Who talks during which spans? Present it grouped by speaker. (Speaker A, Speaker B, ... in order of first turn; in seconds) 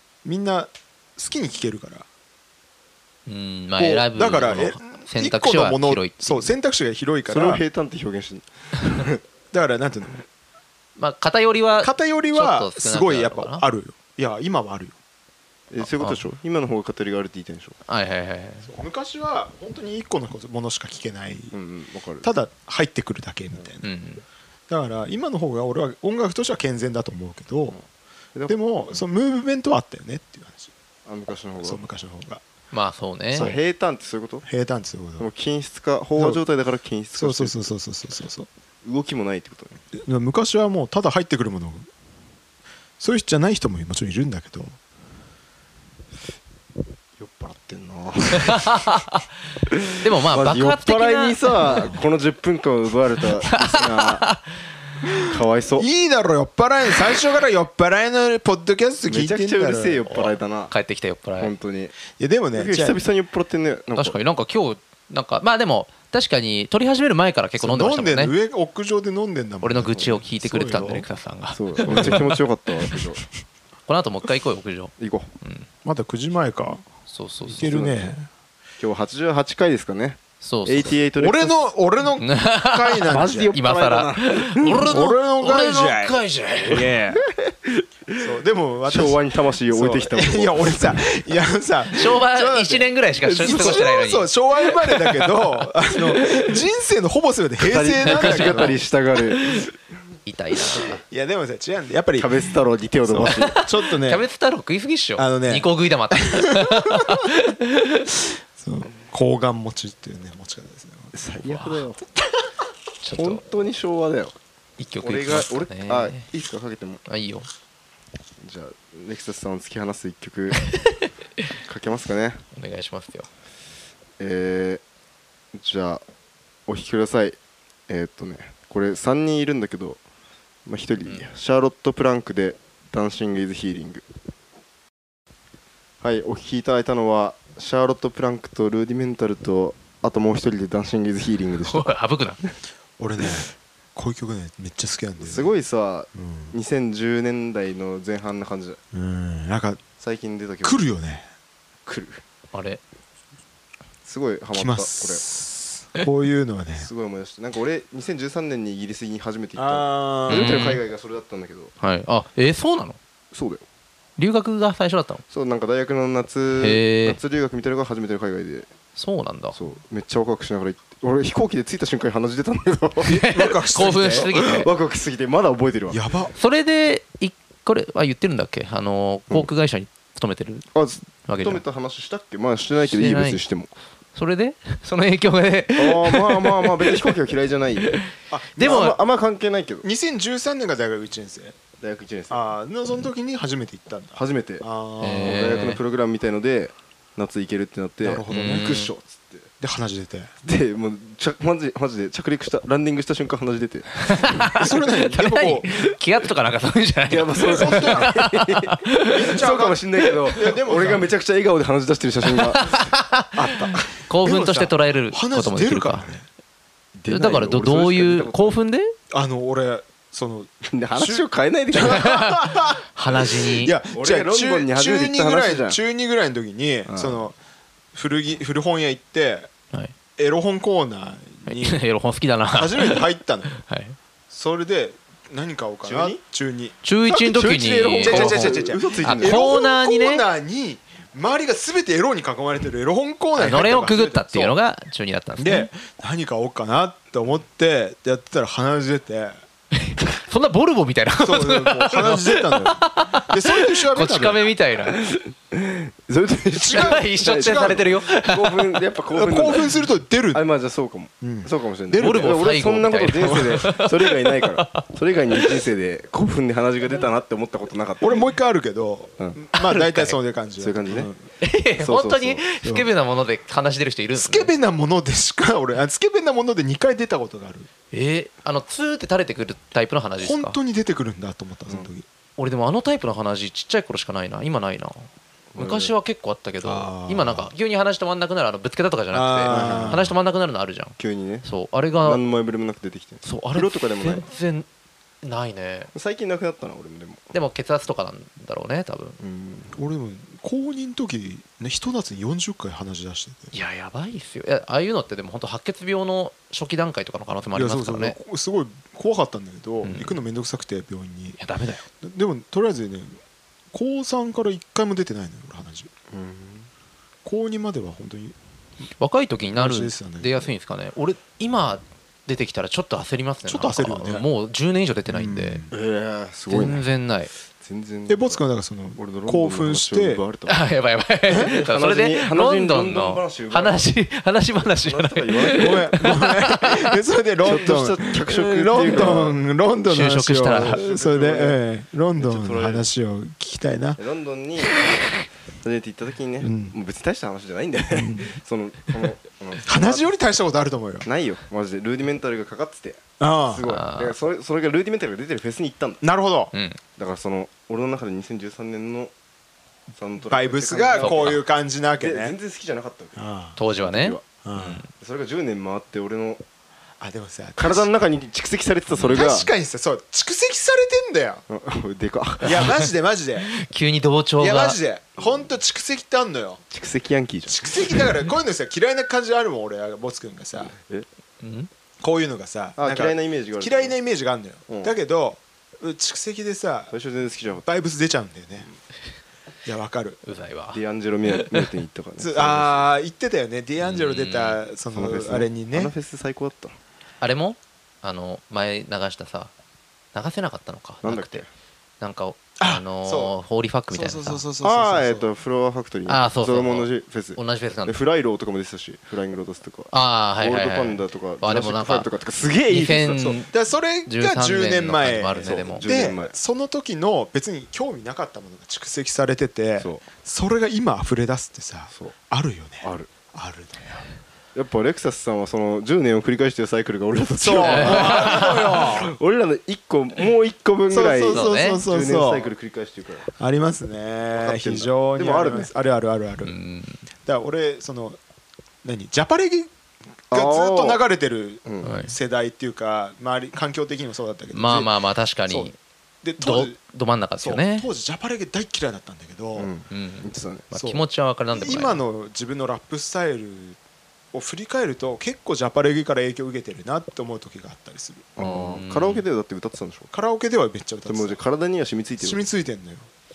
Speaker A: 0.2-2.1, 3.8-7.6, 9.5-10.2, 11.8-15.0, 18.7-21.5, 22.2-23.9, 24.7-27.8, 28.5-30.7, 31.6-32.4, 34.5-35.3, 37.2-38.5, 39.9-41.9, 43.0-44.8, 55.8-60.2, 62.1-63.0, 67.6-71.1, 71.8-72.3, 75.8-76.9, 77.5-78.3, 81.2-83.6, 84.8-87.2, 88.2-98.8, 101.0-102.3, 103.1-104.2, 105.2-107.3, 108.6-111.1, 143.0-145.5, 146.2-146.5, 148.9-149.8, 150.6-151.3, 154.5-156.9, 159.6-160.7, 173.1-174.3, 175.9-176.3, 188.3-189.0, 189.8-191.6, 192.3-195.7, 198.0-198.7, 199.6-200.3, 204.5-205.8, 207.5-208.1, 209.1-209.8, 210.3-211.1, 213.3-216.3, 219.1-227.4, 227.9-229.5, 230.2-231.8, 232.5-233.6, 234.3-236.8, 238.0-244.6, 245.4-249.4, 251.2-254.4, 256.6-257.9, 259.1-260.4, 261.2-262.4, 268.0-271.2, 272.6-272.9, 274.2-277.7, 280.2-282.1, 286.6-287.5, 289.1-290.1, 299.7-303.5, 307.6-311.4, 312.0-313.2, 313.7-315.9, 317.2-318.4, 319.6-320.5, 323.5-324.3, 325.1-325.7, 328.1-330.2, 335.5-344.0, 346.4-346.7, 347.9-348.3, 349.6-351.1, 353.2-353.7, 356.0-356.5, 360.3-362.4, 363.2-363.6, 364.4-364.8, 367.0-367.9, 369.1-371.4, 372.4-373.5, 374.4-376.6, 377.5-380.7, 382.0-386.9, 387.6-388.7, 389.6-390.2, 392.2-395.9, 402.6-403.3, 403.9-405.3, 413.0-424.0, 427.4-429.1, 430.9-432.5, 433.3-436.6, 437.2-438.2, 438.8-439.7, 440.3-444.9, 446.2-446.8, 447.4-449.7, 450.7-453.8, 454.3-458.3, 460.1-461.4, 462.2-463.1
Speaker B: 3.3-6.5, 11.0-13.6, 15.9-16.2, 17.9-18.7, 23.8-24.2, 32.7-33.5, 48.3-49.2, 50.0-51.9, 53.5-54.4, 60.7-61.5, 64.0-68.3, 69.6-72.4, 73.9-75.7, 77.1-77.7, 80.4-81.0, 82.2-86.9, 91.9-94.3, 94.8-95.3, 98.0-98.8, 100.3-101.0, 103.2-108.1, 111.4-111.9, 113.0-113.4, 114.8-116.3, 117.1-117.5, 120.7-121.1, 122.5-123.3, 141.6-142.4, 152.5-152.8, 160.3-160.8, 161.8-163.0, 164.2-165.2, 166.6-167.2, 168.9-169.6, 173.1-174.7, 176.3-180.7, 181.3-181.6, 182.9-183.4, 184.2-187.0, 188.6-189.0, 195.0-195.8, 198.1-198.9, 204.0-209.4, 212.3-213.3, 213.9-216.1, 217.1-218.9, 221.8-223.7, 231.5-234.0, 236.8-240.2, 243.3-245.7, 249.7-255.0, 256.7-258.7, 262.0-265.6, 269.5-270.2, 271.4-274.5, 277.9-280.6, 282.4-292.2, 293.2-294.7, 295.2-295.9, 297.3-299.2, 303.5-308.2, 309.8-310.2, 311.4-311.8, 319.0-325.6, 326.5-327.3, 330.5-336.9, 339.8-340.8, 353.7-354.1, 356.5-356.8, 361.0-361.4, 363.6-364.9, 368.9-369.3, 372.4-372.8, 373.4-374.8, 381.4-381.7, 390.2-391.7, 393.8-394.6, 397.2-399.5, 400.1-401.4, 402.0-404.4, 406.1-408.0, 409.9-412.1, 412.7-413.5, 414.1-415.9, 427.6-428.8, 431.3-431.8, 436.4-437.0, 441.8-442.1, 444.5-445.8, 446.4-447.9, 449.9-452.0, 458.4-459.2
Speaker C: 7.3-9.2, 15.7-17.8, 21.5-22.3, 28.4-29.0, 31.1-31.8, 33.3-34.5, 35.2-37.7, 38.8-39.8, 47.2-48.9, 49.7-54.3, 55.1-55.9, 59.0-60.7, 61.4-62.0, 62.5-64.2, 71.5-73.3, 75.0-75.3, 77.5-78.1, 78.8-81.6, 83.1-84.9, 87.1-88.2, 88.9-91.0, 93.4-93.8, 97.6-99.6, 102.2-103.6, 111.1-112.0, 113.2-114.3, 115.0-117.0, 118.4-120.6, 121.7-122.4, 124.2-124.8, 125.5-126.0, 126.7-127.4, 127.9-130.0, 130.7-134.0, 136.0-141.9, 145.2-148.8, 150.0-150.8, 151.9-152.2, 154.1-155.2, 156.8-161.7, 163.3-163.6, 165.3-168.7, 169.5-173.3, 173.8-176.0, 180.7-183.7, 185.8-188.1, 188.6-189.8, 191.8-192.5, 194.2-199.5, 200.4-204.5, 207.1-212.9, 217.0-218.6, 220.7-222.1, 223.9-225.8, 226.9-227.2, 235.8-236.2, 237.1-239.5, 254.9-259.8, 260.3-268.2, 270.6-271.1, 271.8-272.4, 285.5-285.9, 289.5-290.1, 291.0-291.5, 292.0-294.3, 295.9-297.3, 299.2-299.7, 316.1-316.7, 325.7-326.9, 327.6-328.4, 328.9-330.6, 331.3-333.9, 334.5-336.1, 337.4-339.4, 340.5-341.6, 342.2-342.9, 344.0-350.1, 351.0-356.0, 357.0-359.1, 359.9-361.4, 362.0-363.2, 363.8-364.2, 364.9-366.4, 367.6-369.5, 371.5-372.7, 375.2-375.4, 376.7-378.0, 380.7-381.1, 382.8-383.9, 384.7-384.9, 386.9-387.7, 390.7-392.9, 394.9-396.8, 401.0-401.5, 404.6-413.3, 415.4-416.3, 422.8-423.1, 424.6-433.3, 434.3-435.7, 440.3-441.0, 449.6-450.7, 458.4-460.1, 461.1-462.5